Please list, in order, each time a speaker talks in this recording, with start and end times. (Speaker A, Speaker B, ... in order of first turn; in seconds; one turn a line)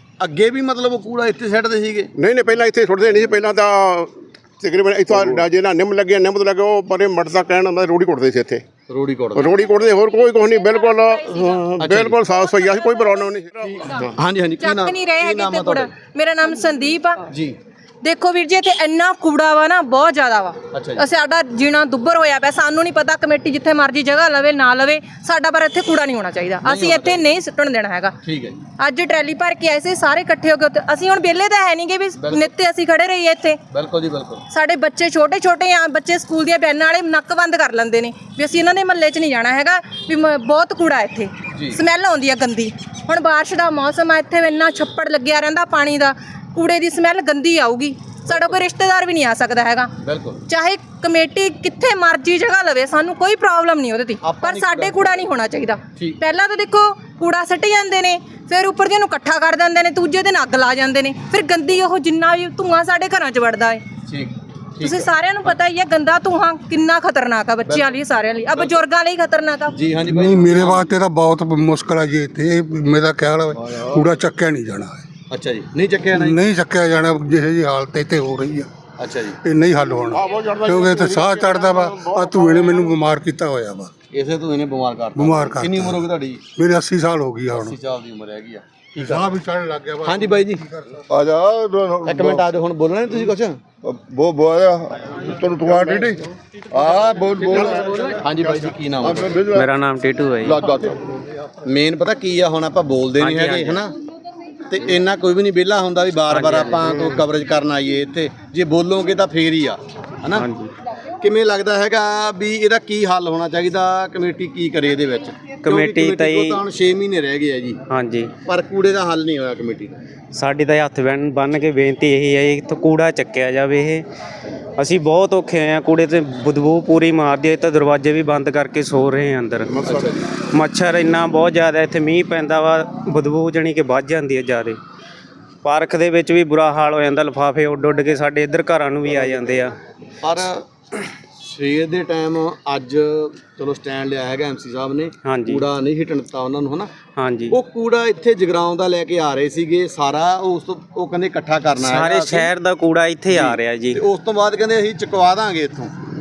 Speaker A: 0.2-2.1
Speaker B: 2.2-8.6
Speaker A: 8.9-9.6
Speaker B: 9.4-14.0
Speaker C: 10.6-11.7
Speaker A: 11.8-12.2
Speaker C: 12.4-13.2
Speaker A: 13.6-16.0
Speaker C: 14.6-17.2
Speaker A: 17.3-17.6
Speaker C: 18.0-28.1
Speaker A: 20.7-21.1
Speaker A: 26.6-27.3
Speaker A: 28.2-28.7
Speaker C: 28.8-33.6
Speaker A: 32.2-32.6
Speaker A: 33.7-34.5
Speaker C: 34.5-49.9
Speaker A: 41.5-41.8
Speaker A: 48.2-48.6
Speaker A: 50.0-50.4
Speaker C: 50.5-63.8
Speaker A: 54.2-55.2
Speaker A: 64.0-65.5
Speaker C: 64.8-69.8
Speaker A: 67.6-68.8
Speaker A: 69.7-70.9
Speaker D: 70.1-75.1
Speaker E: 73.6-74.0
Speaker A: 75.3-76.4
Speaker D: 76.1-78.7
Speaker A: 79.0-79.4
Speaker D: 79.4-83.9
Speaker B: 80.2-82.3
Speaker A: 84.1-86.4
Speaker D: 85.2-86.0
Speaker D: 86.6-87.8
Speaker A: 87.5-89.4
Speaker D: 89.0-91.0
Speaker A: 90.0-90.7
Speaker E: 91.1-92.5
Speaker A: 92.0-93.6
Speaker E: 93.8-98.0
Speaker A: 98.1-99.4
Speaker E: 99.0-99.7
Speaker F: 99.5-100.6
Speaker E: 100.4-101.0
Speaker A: 101.6-104.0
Speaker F: 103.2-103.8
Speaker A: 104.7-110.5
Speaker F: 106.3-107.2
Speaker F: 110.3-110.7
Speaker A: 111.2-117.8
Speaker F: 115.6-116.6
Speaker F: 117.9-118.3
Speaker A: 118.5-120.0
Speaker F: 120.3-124.1
Speaker F: 124.8-129.8
Speaker A: 129.8-130.3
Speaker F: 130.5-134.8
Speaker F: 135.6-139.7
Speaker A: 140.2-146.9
Speaker F: 145.2-145.6
Speaker F: 147.2-147.6
Speaker A: 147.5-152.5
Speaker F: 151.8-154.0
Speaker A: 153.3-155.9